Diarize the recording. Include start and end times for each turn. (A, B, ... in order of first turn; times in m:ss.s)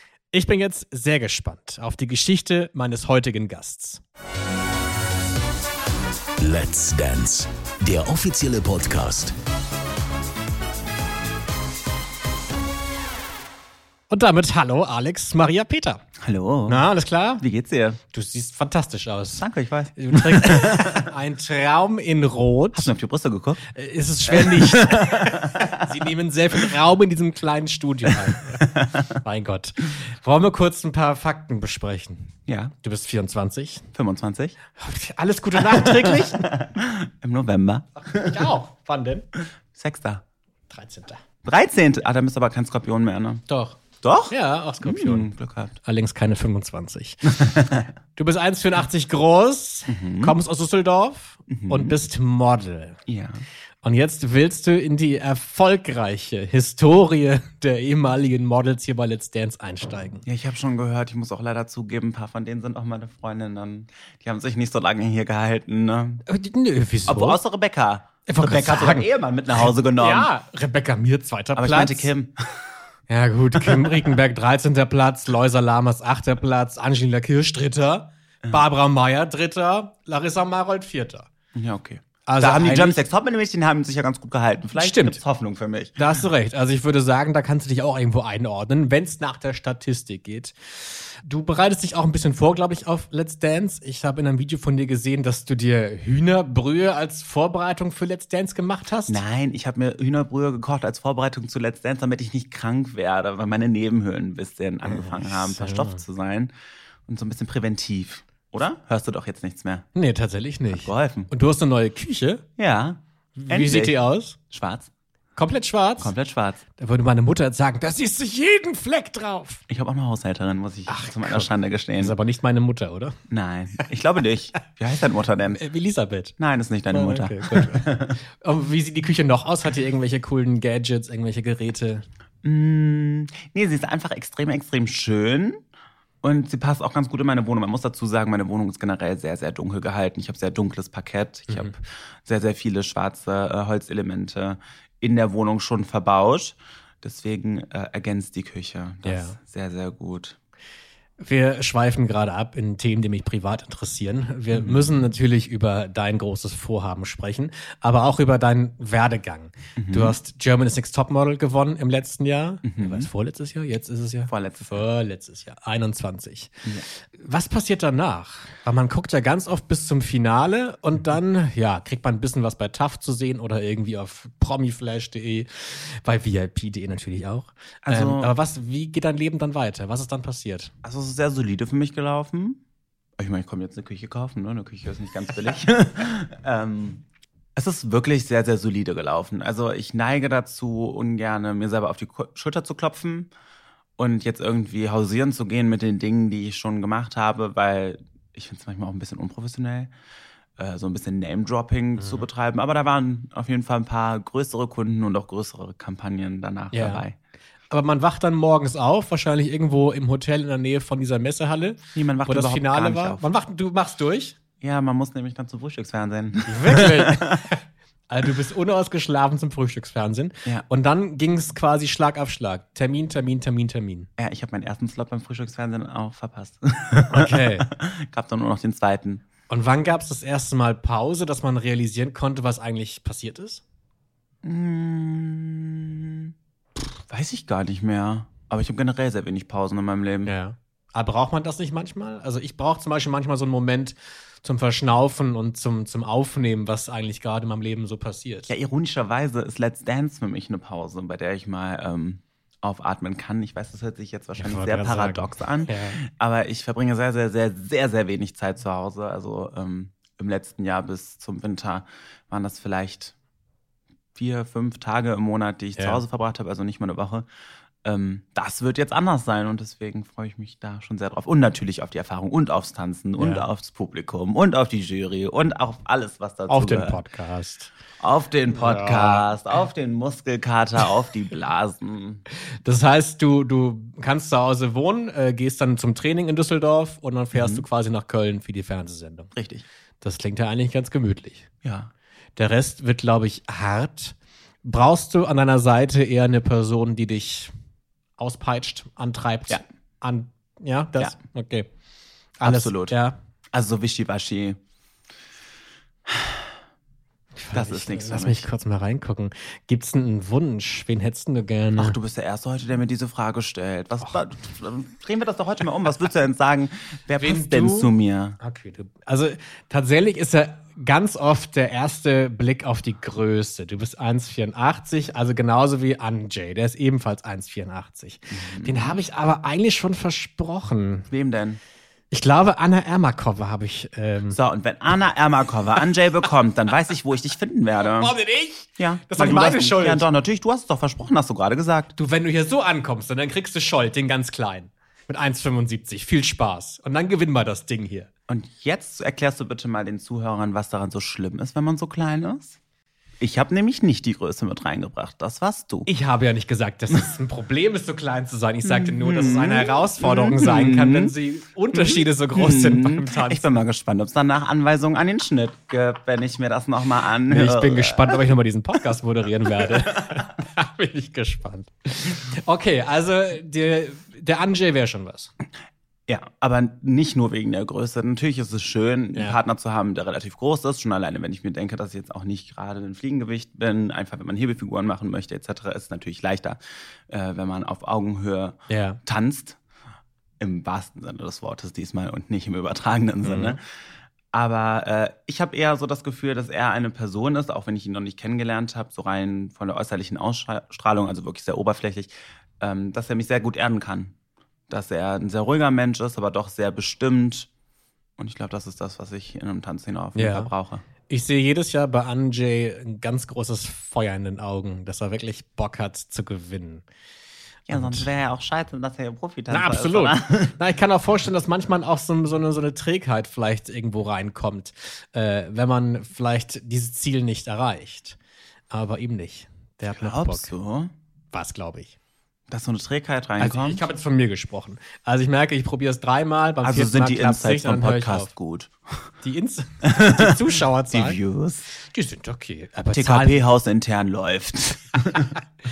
0:00.3-0:04.0 A
0:06.4-0:09.4 B
0:14.1-0:16.0 A
0:16.2-0:16.9 C
0:16.7-0:17.4 A
0:17.4-0:18.0 C
0:18.1-0:19.5 A
0:19.4-0:21.0 C
0:20.0-0:22.9 A
0:22.8-0:23.6 C
0:23.7-0:33.9 A
0:24.3-0:25.8 C
0:28.1-0:29.1 C
0:32.5-0:32.7 C
0:33.9-0:34.6 C
0:34.8-0:36.5 A
0:35.6-0:38.5 C
0:38.1-0:39.3 A
0:39.8-0:40.2 C
0:40.7-0:41.2 A
0:41.4-0:43.4 C
0:43.5-0:45.3 A
0:44.0-0:45.8 C
0:45.8-0:47.6 A
0:47.4-0:47.9 C
0:48.2-0:53.0 A
0:49.9-0:50.4 C
0:51.5-0:52.0 C
0:53.1-0:53.4 C
0:53.8-1:00.2 A
1:00.3-1:06.2 C
1:06.3-1:07.4 A
1:07.1-1:10.3 C
1:08.3-1:12.1 A
1:11.6-1:12.4 C
1:13.1-1:21.3 A
1:13.6-1:14.1 C
1:21.6-1:26.0 C
1:22.3-1:23.0 A
1:24.8-1:25.2 A
1:26.0-1:39.2 A
1:39.1-1:46.5 C
1:44.8-1:46.0 A
1:47.1-1:49.9 C
1:50.0-1:52.4 A
1:50.7-1:51.3 C
1:52.6-1:54.9 C
1:53.4-1:54.4 A
1:55.4-1:56.1 A
1:56.0-1:56.6 C
1:56.8-1:59.6 A
1:59.7-2:02.2 C
2:00.9-2:01.5 A
2:02.0-2:03.2 A
2:03.3-2:05.6 C
2:05.6-2:06.4 A
2:06.4-2:08.2 C
2:06.9-2:12.0 A
2:12.4-2:15.6 C
2:16.2-2:30.4 C
2:29.0-2:29.4 A
2:31.2-2:46.6 A
2:34.5-2:35.0 C
2:39.8-2:40.2 C
2:42.6-2:43.1 C
2:44.3-2:44.8 C
2:47.1-3:00.7 A
2:57.8-2:58.3 C
3:00.8-3:02.6 C
3:03.2-3:07.0 C
3:07.6-3:13.3 C
3:14.0-3:19.9 C
3:20.6-3:27.2 C
3:26.7-3:27.0 A
3:27.7-3:34.4 A
3:32.0-3:33.2 C
3:34.6-3:37.5 C
3:36.5-3:44.1 A
3:44.2-3:49.2 C
3:47.1-3:47.7 A
3:49.5-3:53.6 A
3:54.4-4:00.3 C
4:00.3-4:08.5 A
4:08.5-4:23.2 C
4:14.4-4:16.0 A
4:24.2-4:27.3 C
4:25.8-4:26.0 A
4:27.8-4:37.0 C
4:33.2-4:33.5 A
4:36.5-4:37.7 A
4:38.0-4:42.2 C
4:38.5-4:39.4 A
4:42.6-4:49.3 A
4:47.3-4:47.6 C
4:49.4-4:49.7 C
4:50.0-4:51.5 A
4:51.6-4:51.9 C
4:52.4-4:57.5 A
4:58.2-5:01.7 A
5:02.4-5:02.9 C
5:02.4-5:03.2 A
5:03.5-5:04.6 C
5:06.1-5:06.5 C
5:07.4-5:12.0 A
5:07.5-5:08.5 C
5:11.8-5:18.4 C
5:17.2-5:31.1 A
5:28.3-5:29.0 C
5:31.1-5:31.6 C
5:32.1-5:34.4 A
5:34.3-5:38.1 C
5:37.8-5:40.1 A
5:38.8-5:41.9 C
5:42.0-5:48.1 A
5:48.3-5:52.6 C
5:53.2-5:55.9 C
5:55.9-6:03.5 A
5:58.6-6:01.1 C
6:01.7-6:08.2 C
6:07.3-6:15.3 A
6:16.1-6:29.6 C
6:28.7-6:29.0 A
6:30.4-6:33.6 C
6:33.2-6:33.6 A
6:34.3-6:44.2 C
6:44.7-6:47.5 C
6:48.2-6:50.8 C
6:50.2-6:50.5 A
6:51.1-6:56.8 A
6:57.7-7:00.6 C
6:57.7-6:58.1 A
6:59.5-7:08.2 A
7:08.7-7:10.5 A
7:09.9-7:10.9 C
7:11.3-7:11.9 A
7:12.5-7:13.8 C
7:13.4-7:18.3 A
7:16.6-7:18.7 C
7:19.2-7:21.2 A
7:20.0-7:21.7 C
7:21.8-7:23.5 A
7:22.9-7:25.4 C